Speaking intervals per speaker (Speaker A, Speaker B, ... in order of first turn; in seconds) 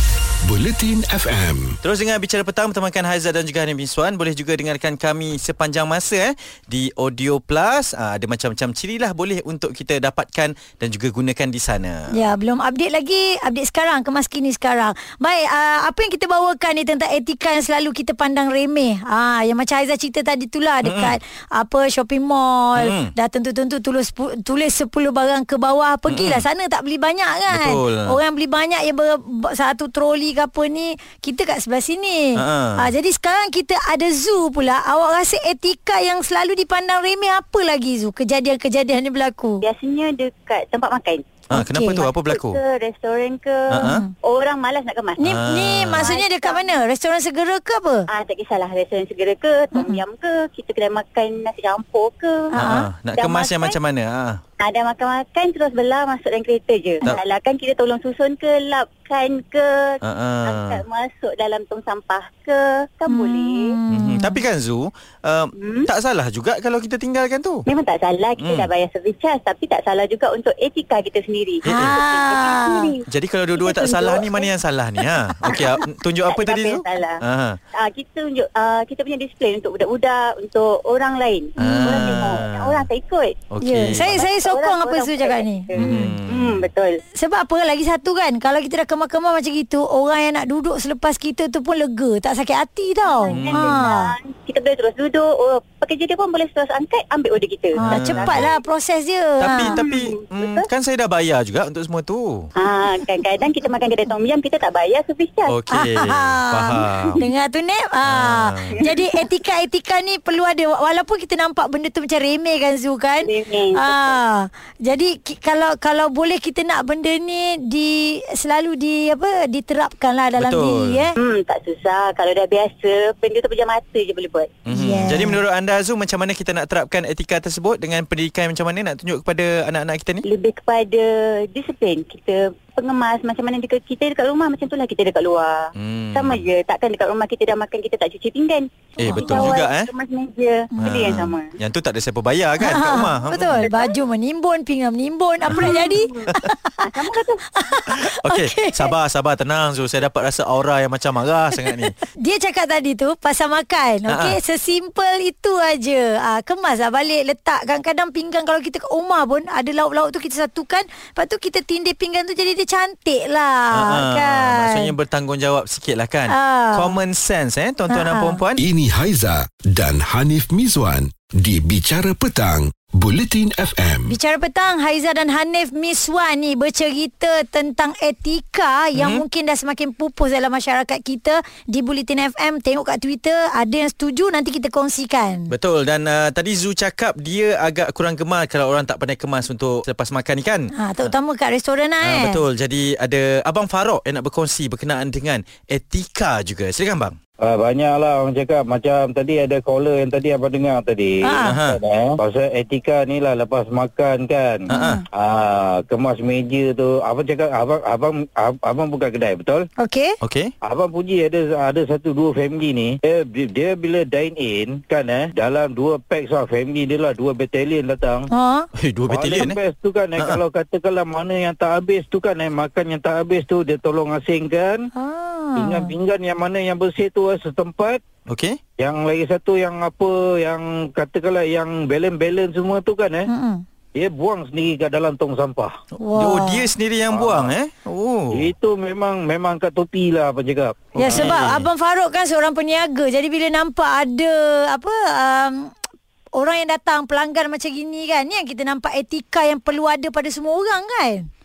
Speaker A: 0.4-1.8, 168.6-174.2
Speaker B: 1.8-12.1, 20.8-21.1, 22.8-23.1, 26.1-26.4, 27.5-28.2, 32.4-32.9, 41.5-42.6, 43.7-44.0, 45.2-46.1, 52.5-54.4, 60.0-60.8, 63.9-67.6, 68.4-68.7, 71.6-72.0, 73.1-77.6, 81.6-82.9, 83.5-84.2, 85.7-86.7, 93.3-93.8, 97.8-98.5, 99.4-102.5, 105.5-107.2, 108.0-108.8, 120.4-121.0, 124.7-130.2, 135.8-136.5, 139.0-139.9, 140.8-143.7, 147.9-151.9, 154.1-154.4, 163.7-168.6, 178.9-179.2, 185.5-191.1, 192.0-197.2, 201.4-201.8, 204.7-205.0, 210.2-210.5, 218.8-219.6, 228.3-228.6, 236.1-238.5, 241.0-241.7
Speaker C: 12.1-39.6, 41.5-42.0, 43.8-44.1, 45.2-48.0, 49.7-50.0, 52.5-52.9, 63.1-64.4, 71.7-72.9, 81.6-82.3, 83.6-86.1, 87.1-94.1, 97.8-99.8, 105.7-121.1, 124.7-125.4, 139.1-139.6, 140.7-141.0, 142.6-146.7, 147.6-148.9, 152.2-164.9, 166.3-167.0, 167.9-168.4, 174.1-185.5, 190.7-192.4, 201.2-201.6, 204.7-205.0, 209.8-210.1, 218.3-218.7, 224.9-225.9, 233.3-233.6, 236.0-236.7, 240.9-245.7, 246.3-251.3
Speaker D: 39.6-41.4, 42.0-45.4, 45.9-46.7, 48.1-53.8, 54.6-63.8, 65.6-65.9, 67.7-73.0, 73.6-74.4, 76.3-77.2, 77.7-83.4, 84.1-87.0, 93.0-98.4, 99.5-100.7, 102.6-105.5, 113.2-114.2, 121.2-124.5, 130.2-141.6, 145.6-147.4
Speaker E: 197.4-209.7, 210.6-218.3, 219.1-224.8, 225.6-228.0, 228.8-233.3, 233.9-235.7, 237.1-237.5, 238.3-241.4